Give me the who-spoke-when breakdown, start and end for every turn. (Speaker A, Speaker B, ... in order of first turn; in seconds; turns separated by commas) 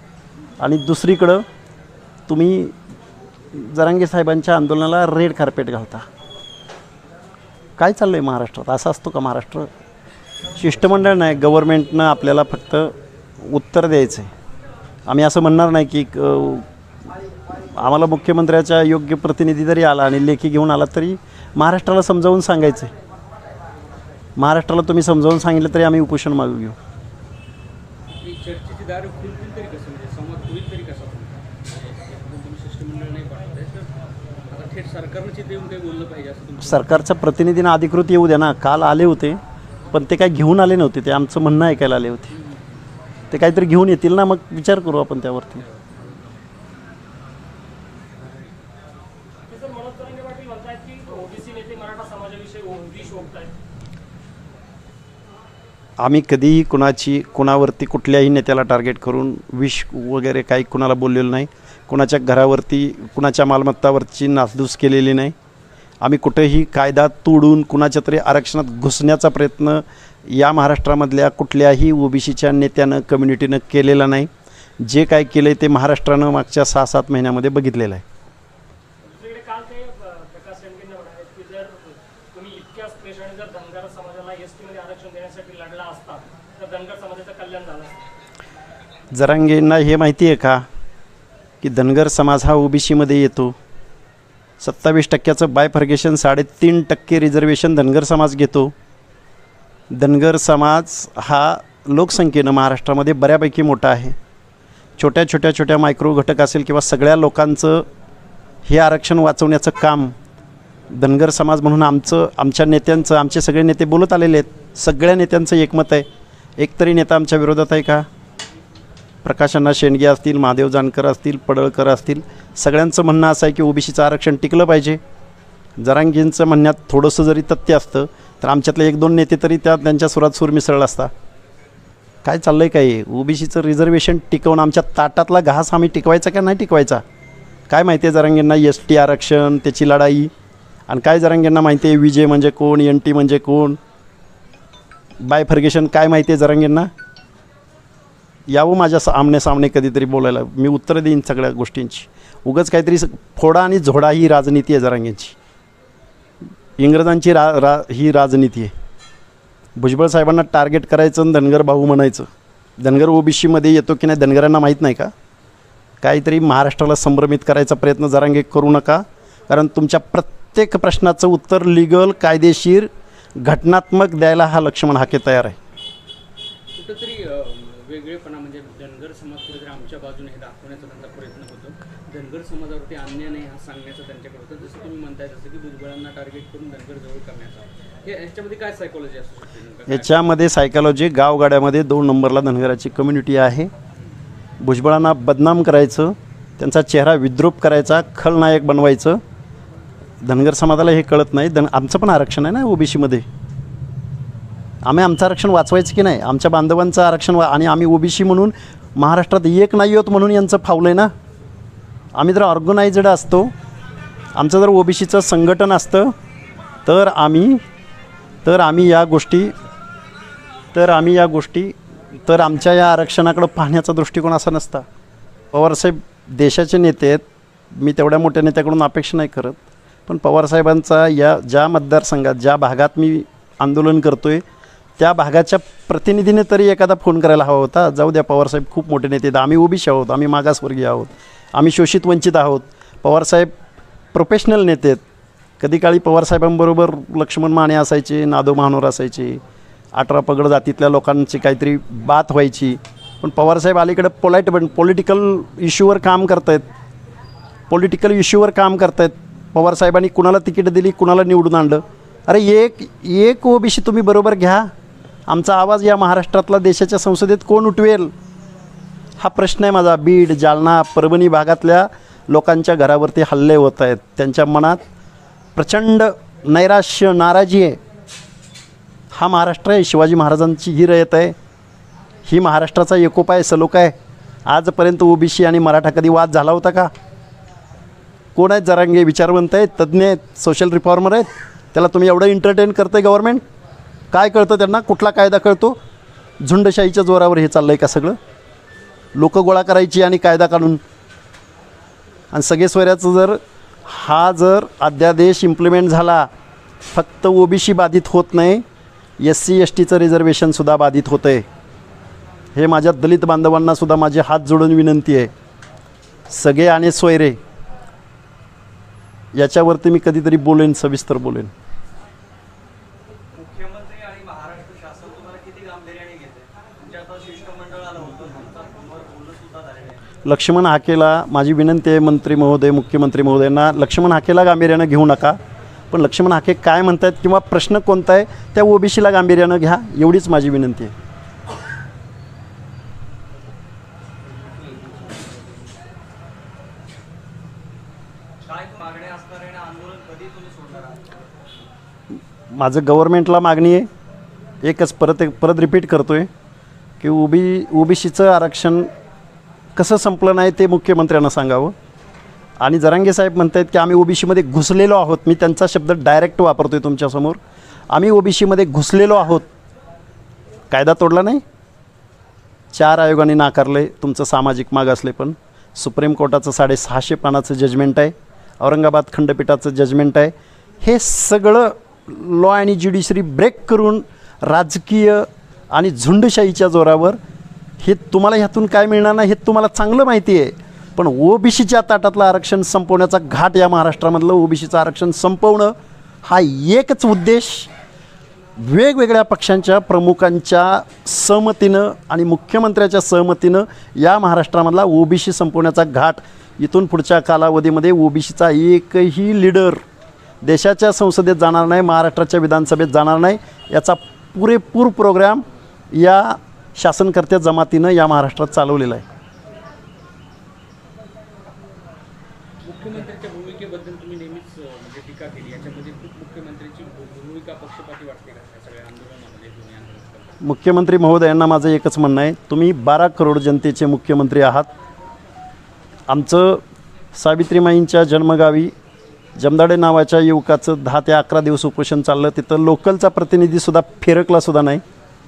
Speaker A: 0.6-1.4, Speaker A: 2.3-2.8, Speaker A: 3.5-6.1, Speaker A: 7.8-9.7, Speaker A: 10.6-14.3, Speaker A: 15.1-16.7, Speaker A: 17.7-22.9, Speaker A: 24.4-26.8, Speaker B: 28.2-33.9, Speaker B: 34.5-37.0, Speaker A: 36.6-39.4, Speaker A: 39.9-42.3, Speaker B: 42.3-42.6, Speaker A: 43.3-45.6, Speaker C: 49.5-53.5, Speaker A: 56.0-65.3, Speaker A: 66.0-74.3, Speaker A: 74.8-78.0, Speaker C: 79.0-88.0, Speaker A: 89.1-90.7, Speaker A: 91.6-93.5, Speaker A: 94.6-98.7, Speaker A: 99.9-104.2, Speaker A: 105.0-107.8, Speaker A: 108.7-110.1, Speaker A: 110.9-116.1, Speaker A: 116.6-118.1, Speaker A: 119.2-125.0, Speaker A: 125.8-131.1, Speaker A: 132.2-137.0, Speaker A: 137.7-140.3, Speaker A: 140.9-143.8, Speaker A: 145.2-146.9, Speaker A: 148.5-155.4, Speaker A: 156.8-158.7, Speaker A: 159.8-162.3, Speaker A: 162.8-165.1, Speaker A: 166.0-175.6, Speaker B: 176.7-190.2, Speaker A: 189.9-193.7, Speaker A: 194.6-199.2, Speaker A: 200.2-203.3, Speaker A: 204.8-211.1, Speaker A: 212.2-213.5, Speaker A: 214.4-216.1, Speaker A: 216.9-217.6, Speaker A: 218.4-219.5, Speaker A: 220.7-224.9, Speaker A: 225.5-234.4, Speaker A: 235.0-243.5, Speaker A: 244.1-245.0, Speaker A: 245.6-249.4, Speaker A: 250.0-256.7, Speaker A: 257.7-264.7, Speaker A: 265.3-268.1, Speaker A: 269.2-274.8, Speaker A: 275.6-277.8, Speaker A: 279.1-281.4, Speaker A: 282.3-283.9, Speaker A: 284.5-286.9, Speaker A: 288.4-293.4, Speaker A: 294.1-295.8, Speaker A: 296.4-298.2, Speaker A: 299.1-300.8, Speaker A: 302.3-306.3, Speaker A: 306.9-308.6, Speaker A: 309.2-311.5, Speaker A: 312.6-315.3, Speaker A: 316.3-317.4, Speaker A: 319.3-321.5, Speaker B: 323.4-326.2, Speaker D: 324.6-327.3, Speaker B: 326.9-330.0, Speaker D: 328.0-329.6, Speaker A: 330.2-335.4, Speaker A: 335.9-340.9, Speaker B: 348.5-350.9, Speaker D: 348.8-351.0, Speaker A: 352.5-353.9, Speaker A: 354.6-356.3, Speaker A: 357.0-358.9, Speaker A: 359.8-361.7, Speaker A: 362.6-367.4, Speaker A: 367.9-369.5, Speaker A: 370.7-371.4, Speaker A: 372.7-387.2, Speaker A: 387.8-395.7, Speaker A: 396.2-397.7, Speaker A: 398.6-409.8, Speaker A: 410.4-419.1, Speaker B: 422.6-430.4, Speaker A: 430.4-434.7, Speaker A: 436.1-436.6, Speaker A: 437.1-438.7, Speaker A: 439.4-444.8